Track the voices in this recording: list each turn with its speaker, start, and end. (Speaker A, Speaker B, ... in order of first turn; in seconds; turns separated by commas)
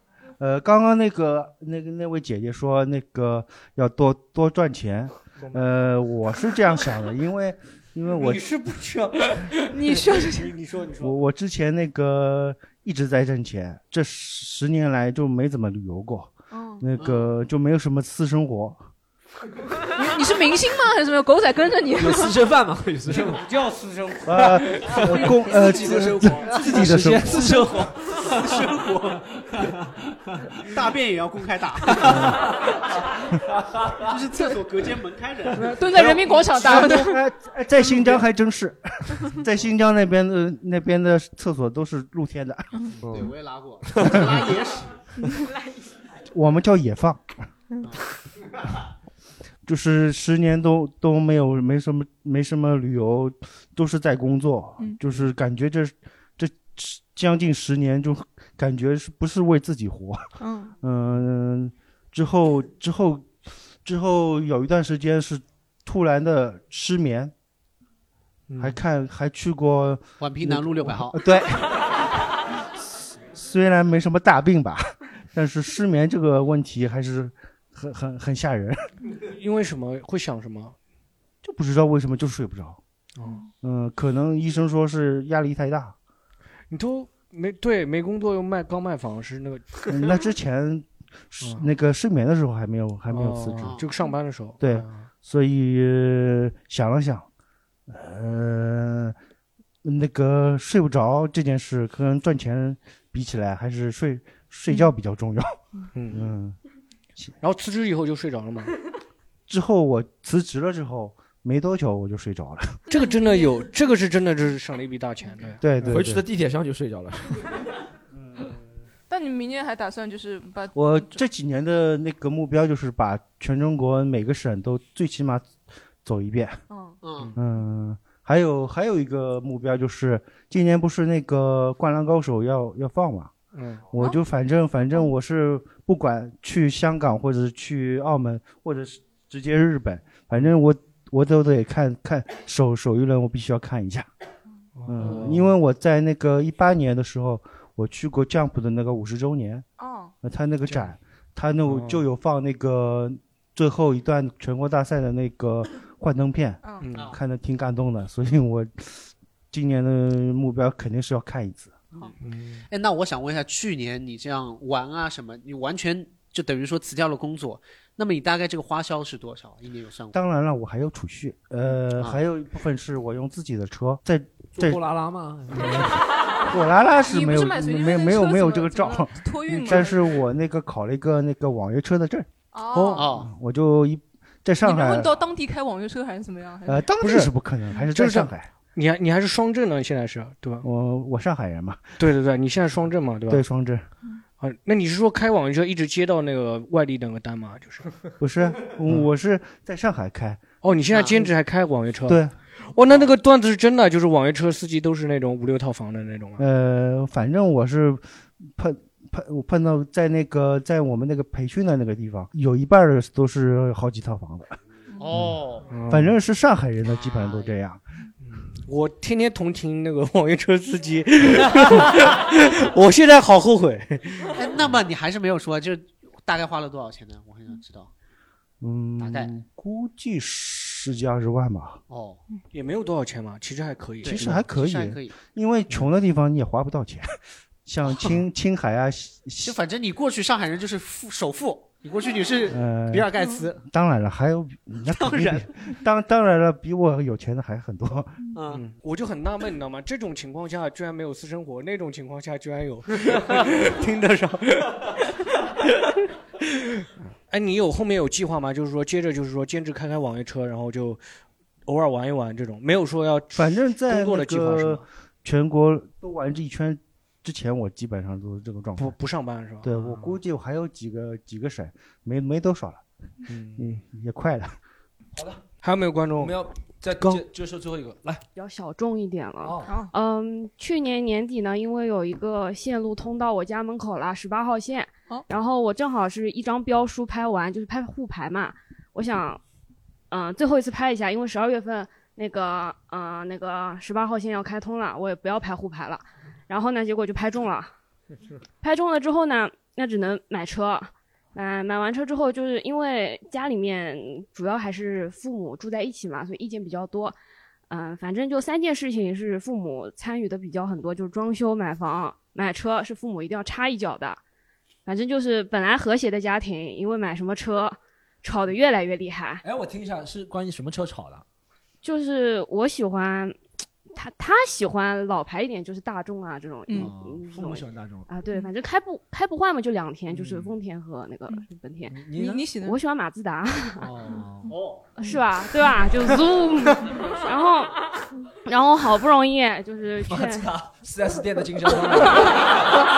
Speaker A: 0.4-8.5, Speaker B: 5.4-5.7, Speaker B: 8.1-11.2, Speaker C: 9.6-10.6, Speaker A: 11.0-18.8, Speaker C: 16.5-16.9, Speaker C: 19.9-22.4, Speaker D: 22.0-23.5, Speaker B: 23.1-27.6, Speaker A: 24.2-27.4, Speaker D: 24.7-25.3, Speaker E: 25.5-27.4, Speaker D: 26.3-28.7, Speaker E: 28.4-28.9, Speaker E: 30.6-32.8, Speaker D: 32.0-32.3, Speaker E: 33.9-36.7, Speaker C: 35.5-37.2, Speaker A: 36.5-42.7, Speaker C: 42.7-43.1, Speaker E: 43.0-45.0, Speaker D: 43.9-44.4, Speaker A: 46.3-47.3, Speaker A: 49.7-60.3, Speaker C: 60.4-60.7, Speaker A: 60.8-67.3, Speaker B: 68.5-68.8, Speaker A: 68.6-71.9, Speaker E: 70.2-71.2, Speaker A: 73.3-78.8, Speaker B: 79.2-80.8, Speaker A: 81.4-82.8, Speaker B: 83.2-83.4, Speaker C: 83.2-83.5, Speaker A: 83.6-86.0, Speaker B: 86.7-89.9, Speaker A: 89.9-93.8, Speaker B: 91.4-91.7, Speaker B: 93.1-95.1, Speaker E: 93.6-93.9, Speaker A: 94.6-97.3, Speaker A: 97.9-99.2, Speaker A: 99.8-105.6, Speaker B: 105.9-106.3, Speaker A: 106.1-106.6, Speaker B: 107.4-108.7, Speaker A: 109.5-112.8, Speaker C: 112.9-113.7, Speaker B: 112.9-116.0, Speaker A: 115.6-116.2, Speaker D: 115.8-117.5, Speaker C: 119.1-121.2, Speaker A: 120.7-126.6, Speaker C: 126.7-127.0, Speaker E: 127.0-127.3, Speaker A: 127.4-133.3, Speaker B: 133.5-133.9, Speaker A: 133.9-144.1, Speaker B: 144.8-145.6, Speaker A: 144.9-149.7, Speaker C: 149.8-150.1, Speaker A: 150.2-161.8, Speaker B: 150.7-150.9, Speaker B: 151.6-152.1, Speaker C: 156.6-157.0, Speaker B: 156.8-157.2, Speaker B: 162.2-162.7, Speaker E: 162.7-170.2, Speaker A: 170.1-174.8, Speaker D: 174.5-176.0, Speaker A: 176.5-185.2, Speaker C: 177.0-180.1, Speaker C: 182.5-183.2, Speaker E: 182.9-183.3, Speaker C: 184.6-186.9, Speaker A: 186.7-188.5, Speaker B: 187.0-190.7, Speaker A: 190.6-191.9, Speaker B: 192.0-193.4, Speaker A: 193.3-193.9, Speaker B: 194.4-198.0, Speaker A: 198.2-200.4, Speaker B: 200.6-206.4, Speaker E: 200.9-201.3, Speaker A: 202.1-202.3, Speaker A: 206.4-214.6, Speaker E: 215.0-215.7, Speaker B: 215.7-216.2, Speaker A: 215.9-217.8, Speaker E: 216.8-217.6, Speaker B: 218.2-224.3, Speaker E: 224.3-227.9, Speaker A: 228.6-231.8, Speaker E: 229.0-229.3, Speaker E: 231.9-232.2, Speaker B: 232.5-234.5, Speaker A: 234.0-239.6, Speaker E: 234.1-235.2, Speaker E: 237.9-238.2, Speaker E: 239.4-243.6, Speaker A: 242.5-243.1, Speaker C: 243.2-243.5, Speaker A: 243.6-248.2, Speaker E: 245.0-245.5, Speaker E: 248.3-248.7, Speaker B: 248.5-255.0, Speaker B: 256.4-261.0, Speaker B: 261.7-264.9, Speaker A: 263.4-269.0, Speaker B: 268.8-270.2, Speaker A: 269.6-272.8, Speaker B: 273.3-273.8, Speaker A: 273.6-274.6, Speaker D: 275.1-275.4, Speaker B: 275.6-276.4, Speaker D: 276.2-278.2, Speaker F: 278.4-289.4, Speaker D: 279.4-279.7, Speaker C: 279.6-279.9, Speaker F: 290.1-297.7, Speaker F: 298.6-307.2, Speaker F: 307.7-314.2, Speaker F: 314.9-319.4, Speaker D: 319.4-321.2, Speaker F: 321.8-323.4, Speaker F: 323.9-331.9, Speaker C: 326.7-326.9, Speaker D: 326.7-328.1, Speaker D: 330.1-330.5, Speaker D: 331.9-332.5, Speaker C: 332.1-332.8, Speaker F: 332.6-333.9, Speaker D: 333.8-334.6, Speaker E: 334.5-334.8, Speaker F: 335.0-337.8, Speaker F: 338.4-340.5, Speaker D: 340.0-342.6, Speaker F: 342.0-342.3